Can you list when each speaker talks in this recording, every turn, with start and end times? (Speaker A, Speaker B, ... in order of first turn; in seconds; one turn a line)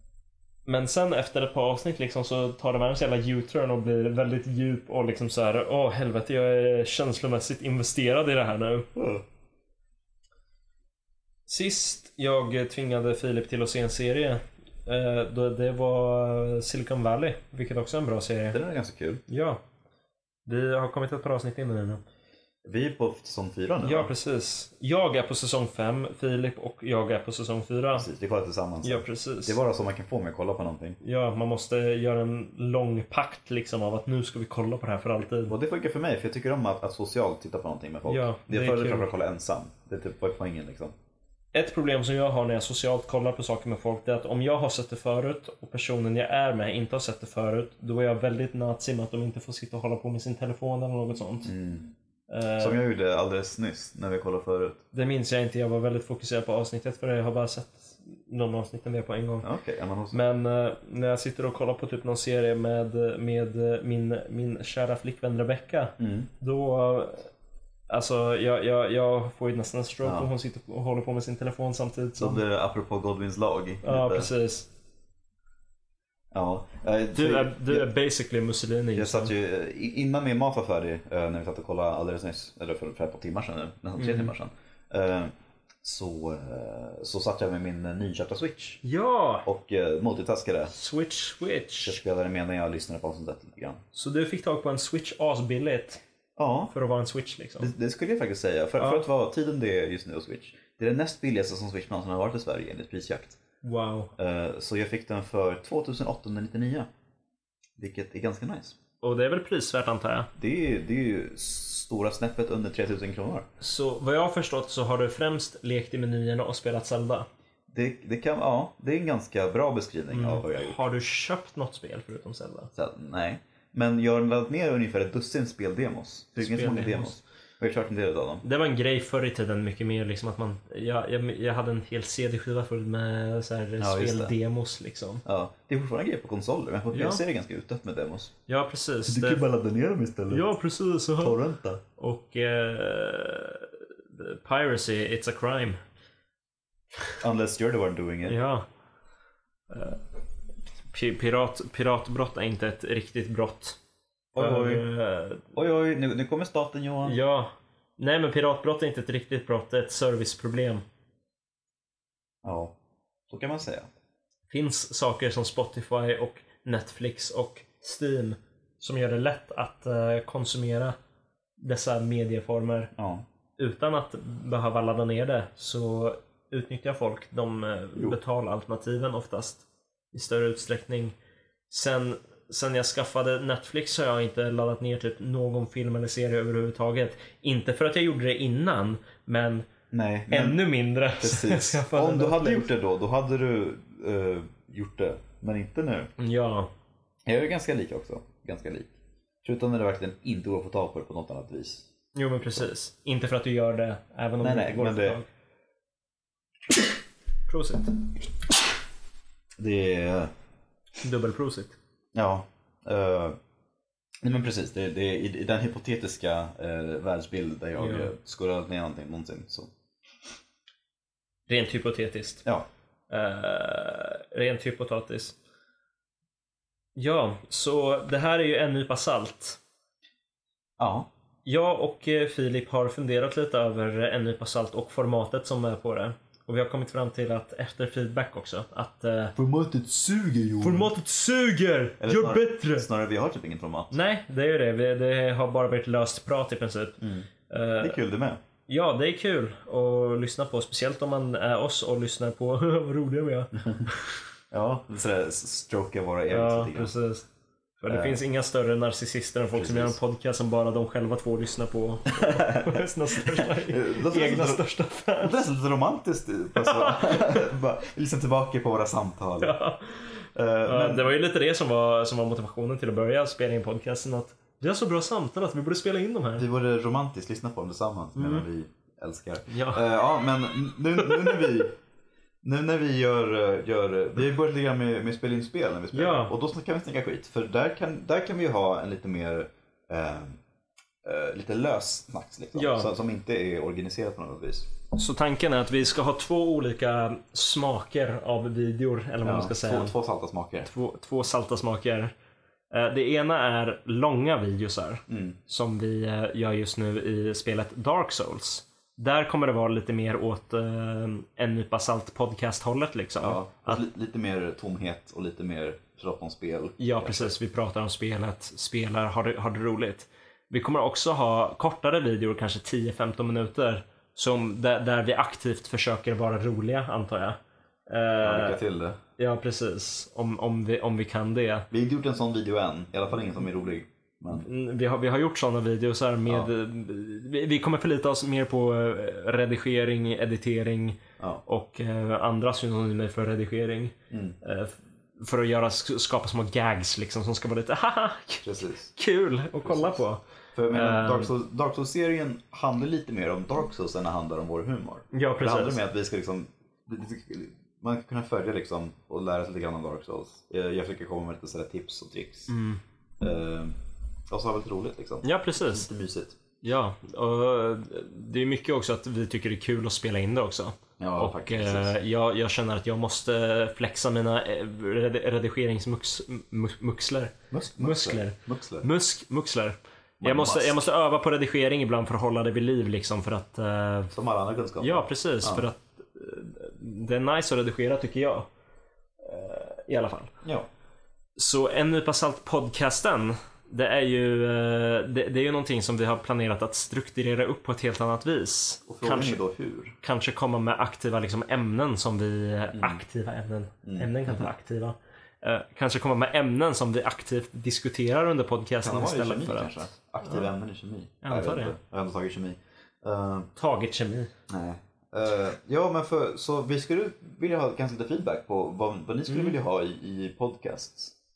Speaker A: 0.7-8.9
Speaker B: 8.9-9.2
Speaker A: 11.5-18.6
Speaker B: 18.5-19.2
Speaker A: 19.3-19.6
Speaker A: 20.4-22.0
Speaker B: 22.6-24.1
Speaker A: 23.8-28.1
Speaker B: 27.9-31.0
Speaker A: 28.8-29.6
Speaker A: 31.0-35.5
Speaker B: 35.5-40.9
Speaker A: 38.1-39.1
Speaker A: 41.5-51.5
Speaker B: 51.5-51.9
Speaker A: 52.3-52.8
Speaker B: 52.6-54.8
Speaker A: 54.9-59.5
Speaker B: 59.4-60.2
Speaker A: 60.1-67.3
Speaker B: 66.0-66.3
Speaker A: 67.9-72.4
Speaker B: 70.0-70.3
Speaker B: 72.2-74.3
Speaker A: 73.8-74.7
Speaker B: 76.3-77.9
Speaker A: 77.1-79.3
Speaker B: 78.9-85.3
Speaker A: 84.0-84.3
Speaker B: 85.8-88.8
Speaker A: 88.8-89.5
Speaker B: 89.4-90.7
Speaker A: 90.7-92.0
Speaker B: 91.8-93.8
Speaker A: 93.9-96.0
Speaker B: 96.4-96.7
Speaker A: 96.7-97.7
Speaker B: 97.6-103.4
Speaker A: 98.8-99.0
Speaker A: 103.6-104.1
Speaker B: 104.2-106.9
Speaker B: 107.8-108.8
Speaker A: 109.0-110.3
Speaker B: 110.4-113.5
Speaker A: 113.6-117.2
Speaker B: 117.7-120.8
Speaker A: 120.1-122.7
Speaker B: 122.7-128.4
Speaker A: 126.3-127.2
Speaker A: 128.4-135.2
Speaker B: 133.8-134.3
Speaker B: 135.2-138.3
Speaker A: 136.9-137.2
Speaker A: 138.5-139.4
Speaker B: 139.1-140.5
Speaker A: 140.3-141.4
Speaker B: 141.2-141.8
Speaker A: 142.0-145.8
Speaker B: 147.2-148.4
Speaker A: 148.2-148.6
Speaker A: 149.7-150.0
Speaker A: 150.9-153.8
Speaker B: 154.3-154.8
Speaker A: 154.3-155.5
Speaker B: 155.5-157.2
Speaker A: 157.0-160.8
Speaker B: 162.4-162.8
Speaker B: 163.3-163.9
Speaker A: 164.5-170.9
Speaker A: 171.6-172.9
Speaker B: 172.9-173.2
Speaker A: 173.6-181.1
Speaker A: 181.7-189.7
Speaker B: 189.9-190.6
Speaker A: 190.3-192.7
Speaker B: 191.2-196.1
Speaker A: 196.2-196.7
Speaker B: 197.2-198.9
Speaker B: 199.4-201.8
Speaker A: 202.1-205.3
Speaker B: 204.4-205.2
Speaker A: 207.5-207.9
Speaker B: 209.6-210.3
Speaker A: 211.0-211.8
Speaker B: 212.1-213.3
Speaker B: 214.2-219.7
Speaker A: 217.8-218.1
Speaker A: 221.5-222.4
Speaker A: 223.1-225.3
Speaker A: 226.9-229.6
Speaker B: 230.8-231.1
Speaker A: 231.4-239.3
Speaker B: 239.3-240.9
Speaker A: 240.6-242.8
Speaker B: 242.0-244.0
Speaker A: 243.9-248.0
Speaker B: 247.0-247.3
Speaker B: 247.8-248.4
Speaker A: 248.7-254.1
Speaker B: 253.6-253.9
Speaker B: 254.5-256.9
Speaker A: 256.3-257.3
Speaker A: 257.8-265.4
Speaker B: 257.9-258.2
Speaker B: 259.6-260.0
Speaker B: 262.1-264.6
Speaker B: 265.2-269.5
Speaker A: 266.6-267.4
Speaker A: 269.4-276.4
Speaker B: 270.3-271.1
Speaker B: 276.4-281.8
Speaker A: 278.1-278.4
Speaker A: 279.5-279.8
Speaker A: 281.0-281.4
Speaker B: 282.4-290.4
Speaker A: 285.9-286.3
Speaker B: 291.0-294.7
Speaker A: 292.5-292.9
Speaker A: 294.9-299.9
Speaker B: 299.2-300.7
Speaker A: 300.6-302.1
Speaker A: 302.7-313.8
Speaker B: 305.1-305.4
Speaker B: 313.2-317.3
Speaker A: 316.8-327.4
Speaker A: 327.9-328.6
Speaker B: 328.2-329.0
Speaker A: 329.2-331.7
Speaker B: 331.7-334.5
Speaker A: 334.3-351.3
Speaker B: 344.1-344.4
Speaker B: 348.4-348.9
Speaker B: 349.6-350.0
Speaker B: 350.5-362.5
Speaker A: 355.1-355.8
Speaker A: 362.5-362.8
Speaker B: 363.2-363.7
Speaker B: 364.3-366.4
Speaker A: 365.2-365.9
Speaker A: 366.6-384.1
Speaker B: 371.0-371.9
Speaker B: 377.5-378.9
Speaker B: 380.2-380.8
Speaker B: 384.1-385.7
Speaker A: 384.8-388.5
Speaker A: 389.2-390.3
Speaker A: 391.4-399.4
Speaker B: 398.9-399.9
Speaker A: 400.0-410.5
Speaker B: 402.7-403.0
Speaker B: 403.8-404.5
Speaker B: 408.8-413.5
Speaker A: 411.2-411.7
Speaker A: 413.6-414.3
Speaker B: 414.5-421.1
Speaker A: 419.3-419.6